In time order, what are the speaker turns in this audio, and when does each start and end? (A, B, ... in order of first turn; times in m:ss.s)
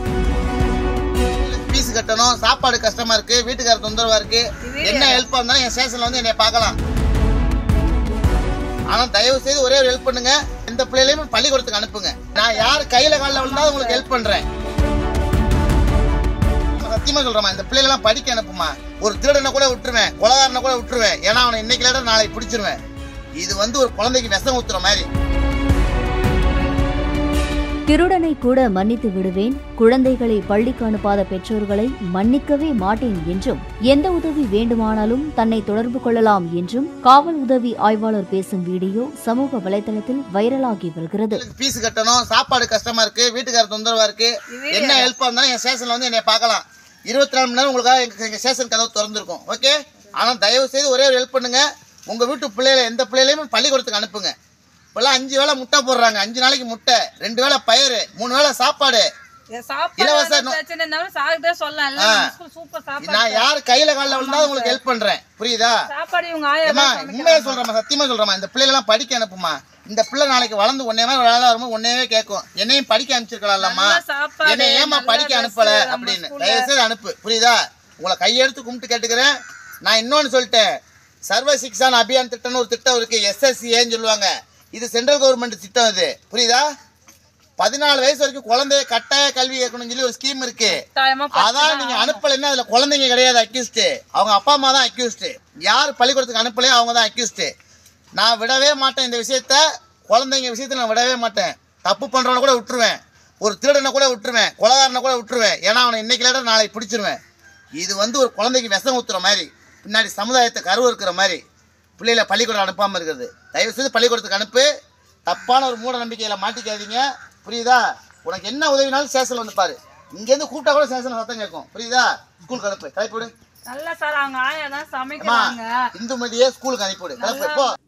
0:01.4-0:06.8 A
0:04.6-0:05.2 B
0:08.9-0:14.5 A
0:12.4-0:14.0 B
0:16.7-0:22.8 A
0:23.4-0:25.1 A
0:27.9-0:41.4 C
0:41.3-0:54.3 A
0:44.5-0:45.1 B
0:55.0-0:59.1 A
0:59.5-1:03.5 B
1:00.0-1:00.6 A
1:02.0-1:02.3 A
1:03.0-1:05.8 A
1:04.1-1:04.8 B
1:05.9-1:07.6 B
1:06.6-1:19.3 A
1:13.6-1:16.7 B
1:19.8-1:20.7 A
1:21.3-1:26.6 A
1:27.6-1:30.8 A
1:30.7-1:32.2 B
1:31.3-1:37.5 A
1:38.2-1:47.2 A
1:47.8-1:51.4 A
1:52.0-1:54.7 A
1:55.3-2:03.3 A
2:03.7-2:05.7 B
2:05.2-2:07.7 A
2:07.2-2:07.7 B